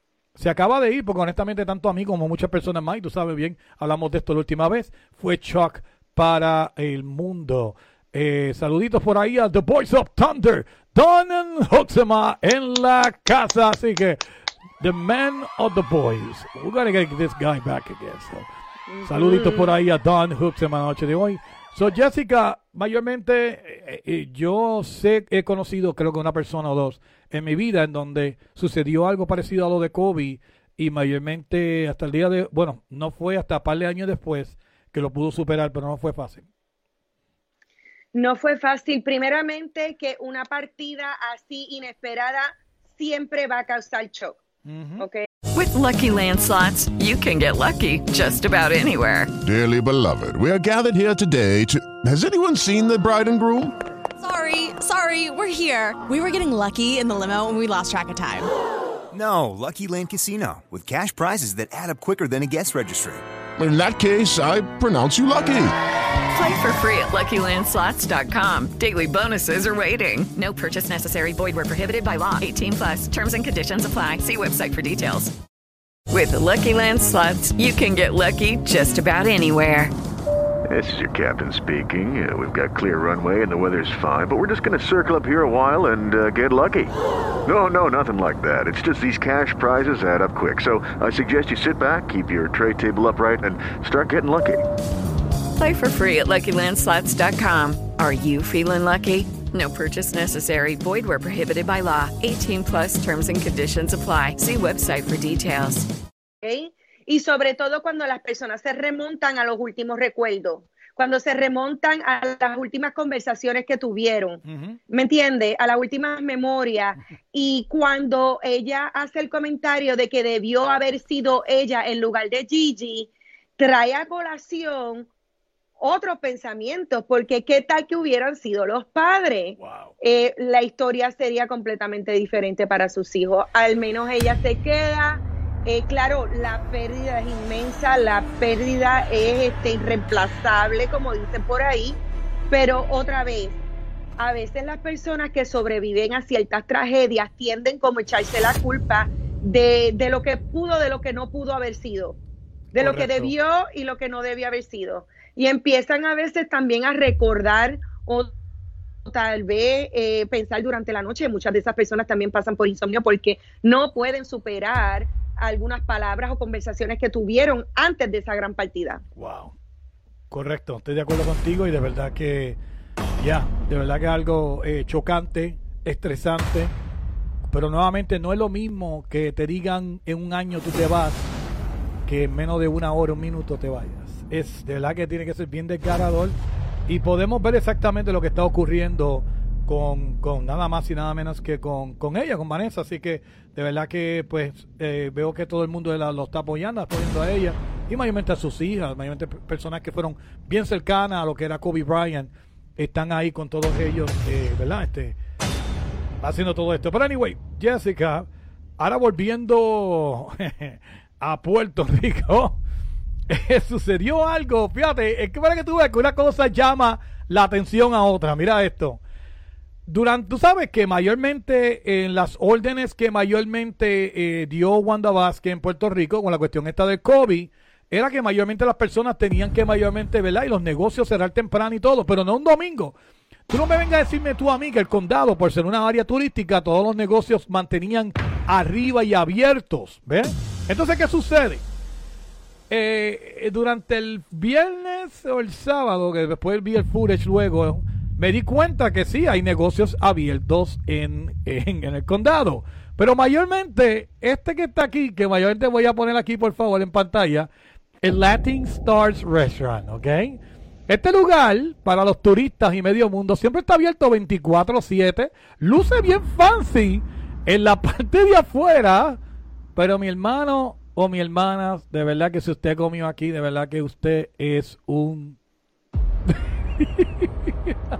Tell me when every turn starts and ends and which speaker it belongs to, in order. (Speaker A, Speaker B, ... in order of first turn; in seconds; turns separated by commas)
Speaker A: 0.4-14.2, Speaker A: 14.8-18.5, Speaker B: 18.9-19.7, Speaker A: 19.1-36.5, Speaker B: 38.1-44.4, Speaker A: 44.7-45.0, Speaker B: 45.0-45.3, Speaker C: 45.5-49.3, Speaker D: 49.4-53.8, Speaker E: 54.2-58.5, Speaker F: 59.1-63.2, Speaker D: 63.6-65.7, Speaker C: 66.3-75.3, Speaker C: 76.1-79.9, Speaker G: 80.7-86.9, Speaker G: 87.5-94.6, Speaker C: 95.6-105.9, Speaker B: 106.4-125.1, Speaker A: 114.5-114.8, Speaker B: 125.8-142.0, Speaker A: 129.6-129.9, Speaker B: 142.5-143.6, Speaker B: 144.2-152.2, Speaker B: 152.8-158.3, Speaker A: 152.8-153.3, Speaker B: 159.1-169.0, Speaker A: 169.2-169.5, Speaker A: 170.3-172.6, Speaker A: 173.2-176.7, Speaker A: 177.5-181.3, Speaker A: 182.1-186.4, Speaker A: 186.9-205.2, Speaker A: 206.2-208.3, Speaker A: 208.8-212.6, Speaker A: 213.3-219.0, Speaker A: 219.9-233.0, Speaker A: 233.5-241.6, Speaker A: 242.7-257.5, Speaker A: 258.0-269.2, Speaker A: 269.8-275.4, Speaker A: 276.8-277.1